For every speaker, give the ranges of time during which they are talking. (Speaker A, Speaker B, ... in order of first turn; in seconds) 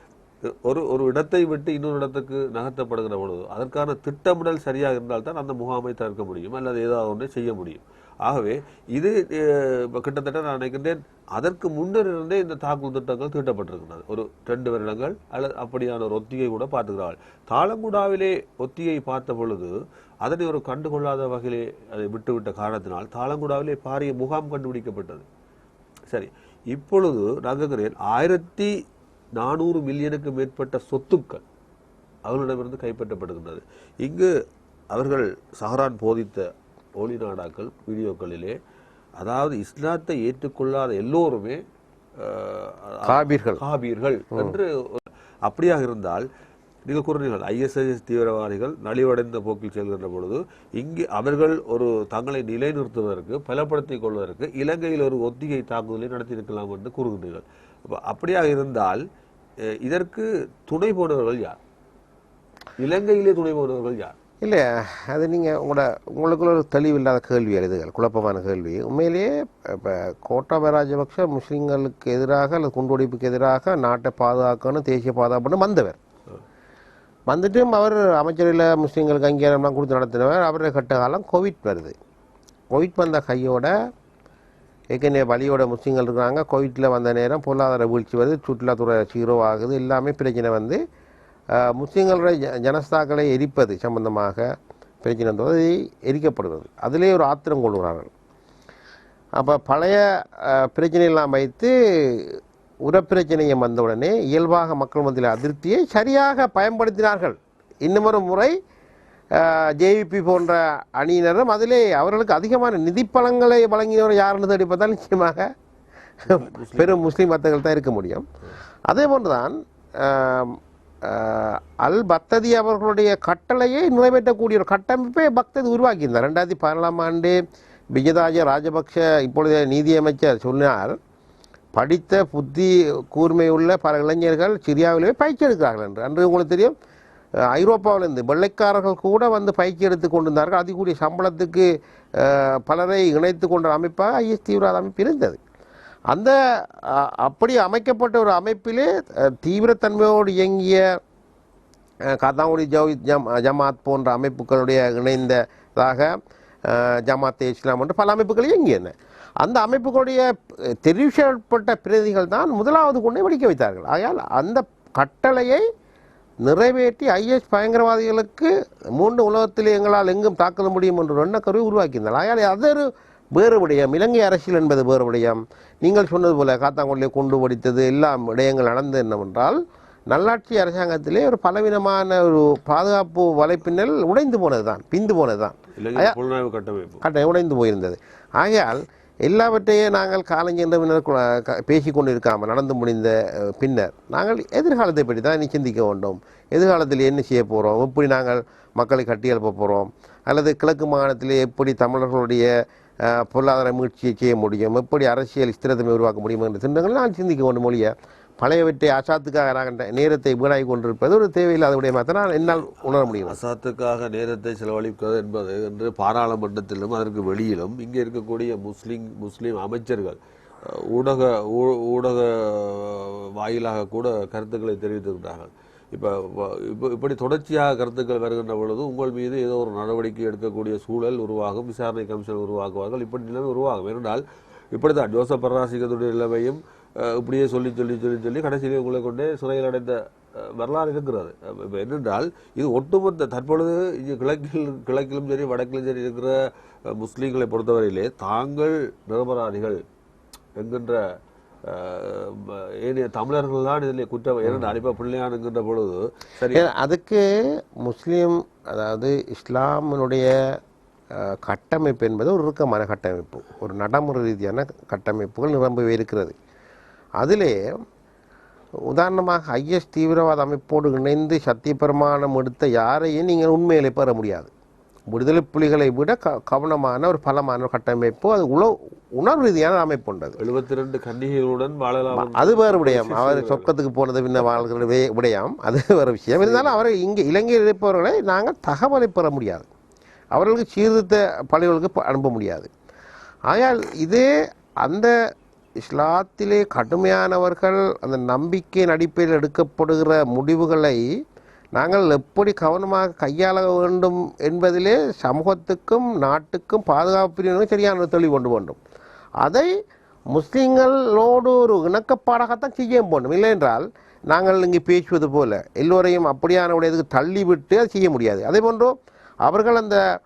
Speaker A: 0.5-19.7, 20.2-25.2, 26.1-28.7, 29.4-31.4, 32.3-34.3, 34.9-36.5, 37.0-38.5, 39.2-41.6, 42.2-46.2, 46.9-59.0, 59.8-61.5, 62.8-64.1, 116.3-117.0, 185.8-187.0, 213.1-246.4, 246.9-249.8, 250.6-251.0, 251.7-256.6, 280.4-283.7, 286.4-286.8
Speaker B: 43.0-43.6, 64.4-76.0, 77.3-81.9, 82.7-83.7, 84.9-90.8, 91.5-94.5, 95.0-98.1, 99.4-108.5, 109.3-115.5, 116.3-118.2, 118.9-127.4, 127.9-131.0, 131.8-136.7, 137.5-145.4, 146.1-150.8, 152.1-156.1, 156.7-165.6, 166.4-179.6, 180.1-186.1, 187.0-202.5, 203.1-213.4, 256.5-257.2, 257.8-260.3, 261.1-266.4, 267.2-267.6, 268.9-274.5, 275.1-280.4, 282.1-289.7, 290.3-292.7, 293.5-294.2, 294.8-295.1, 295.8-301.0, 301.8-308.8, 309.4-309.7, 310.3-318.9, 319.4-320.0